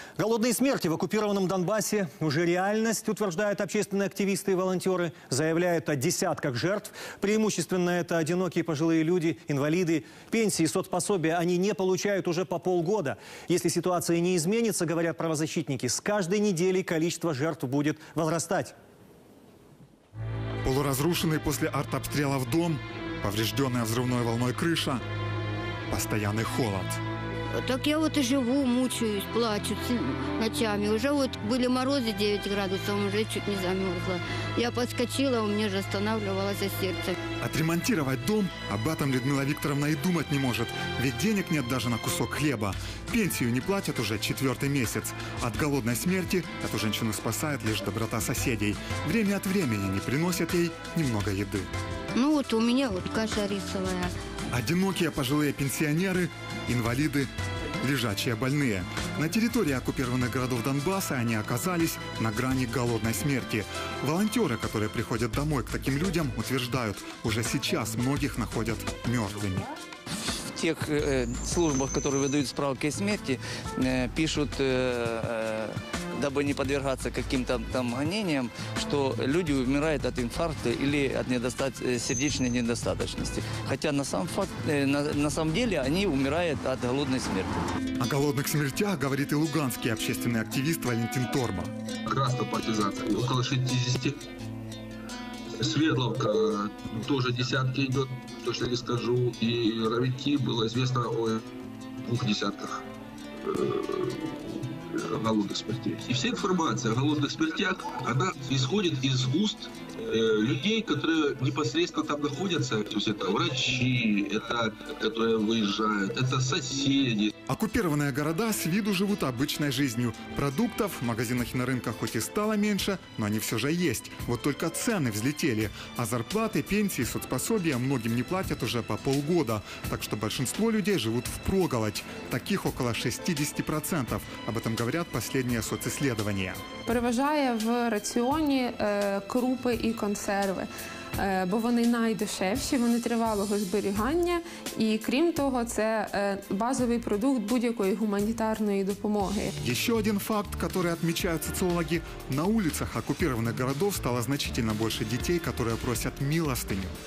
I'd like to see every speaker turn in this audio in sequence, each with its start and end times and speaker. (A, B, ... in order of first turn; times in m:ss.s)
0:00.2-0:18.7 A
0:20.6-0:25.0 B
0:25.9-0:27.0 B
0:27.5-0:37.2 C
0:37.4-0:51.7 B
0:52.1-0:54.1 C
0:54.5-0:57.3 B
0:57.8-1:09.7 B
1:10.4-1:27.6 D
1:28.0-1:31.7 B
1:32.1-1:34.1 E
1:35.6-1:41.4 E
1:42.0-1:42.8 E
1:43.5-1:44.2 E
1:45.0-1:57.3 E
1:57.5-2:16.6 B
2:16.9-2:20.7 F
2:21.2-2:29.5 F
2:29.6-2:36.9 B